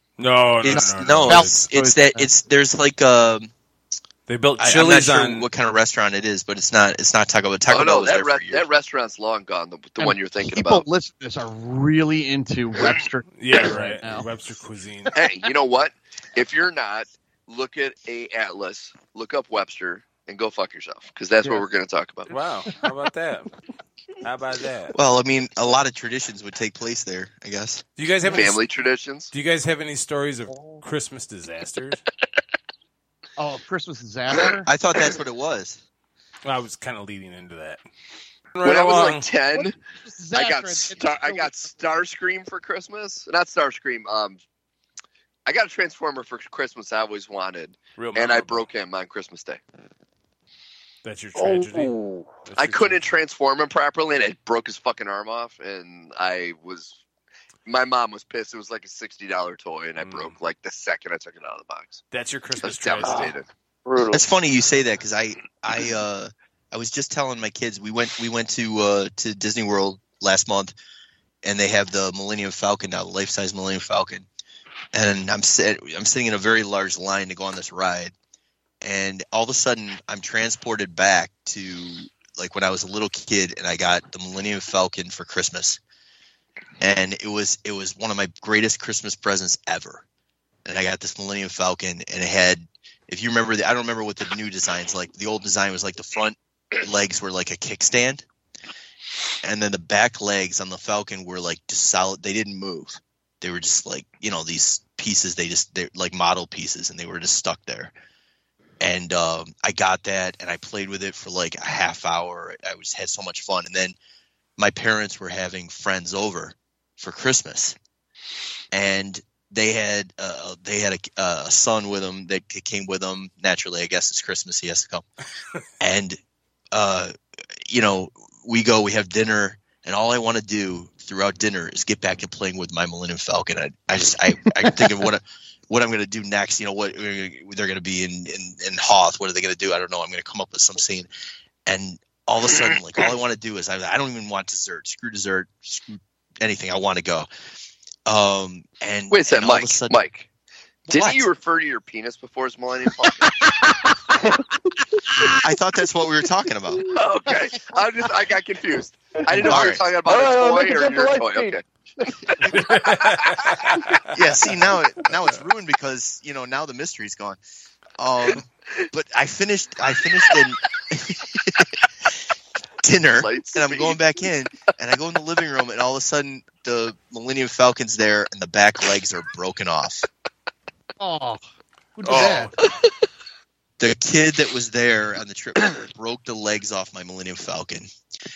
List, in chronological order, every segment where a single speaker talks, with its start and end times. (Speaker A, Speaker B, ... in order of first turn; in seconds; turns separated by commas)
Speaker A: 0.2-1.6, Speaker B: 0.6-3.5, Speaker C: 0.7-2.3, Speaker A: 4.3-5.5, Speaker B: 4.6-8.7, Speaker D: 7.7-10.8, Speaker C: 10.0-14.3, Speaker A: 13.4-15.2, Speaker D: 15.2-22.3, Speaker A: 22.3-23.6, Speaker A: 24.2-24.9, Speaker B: 24.9-27.8, Speaker A: 28.0-28.6, Speaker D: 28.3-29.3, Speaker A: 29.3-32.0, Speaker C: 30.5-30.8, Speaker C: 33.4-34.7, Speaker B: 34.7-35.8, Speaker A: 36.5-37.8, Speaker A: 38.5-39.3, Speaker D: 38.6-39.8, Speaker C: 39.5-41.8, Speaker D: 40.3-44.4, Speaker D: 45.5-49.6, Speaker A: 48.0-48.6, Speaker A: 51.0-51.9, Speaker E: 51.7-52.3, Speaker A: 52.5-53.1, Speaker D: 52.6-57.0, Speaker D: 57.7-62.0, Speaker A: 60.0-60.4, Speaker A: 62.1-63.4, Speaker D: 62.6-63.5, Speaker E: 63.9-64.3, Speaker B: 64.1-70.7, Speaker B: 71.4-74.3, Speaker B: 74.9-78.1, Speaker B: 78.8-85.8, Speaker B: 86.8-90.0, Speaker B: 90.7-98.2, Speaker B: 99.4-107.9, Speaker B: 108.8-114.0, Speaker B: 114.6-117.8, Speaker B: 118.7-125.0, Speaker B: 125.8-126.2, Speaker B: 126.7-127.1, Speaker B: 127.7-141.1, Speaker B: 141.7-147.3, Speaker B: 148.1-150.0, Speaker D: 149.1-150.3, Speaker B: 150.9-151.3, Speaker D: 150.9-153.3, Speaker B: 155.4-156.8, Speaker D: 156.9-161.6, Speaker E: 159.3-162.9, Speaker B: 159.4-159.9, Speaker A: 162.5-164.1, Speaker B: 164.1-167.4, Speaker B: 168.0-171.7, Speaker B: 172.8-180.1, Speaker D: 173.2-174.0, Speaker C: 181.0-181.4, Speaker C: 182.0-182.5, Speaker A: 182.1-182.5, Speaker B: 183.8-187.9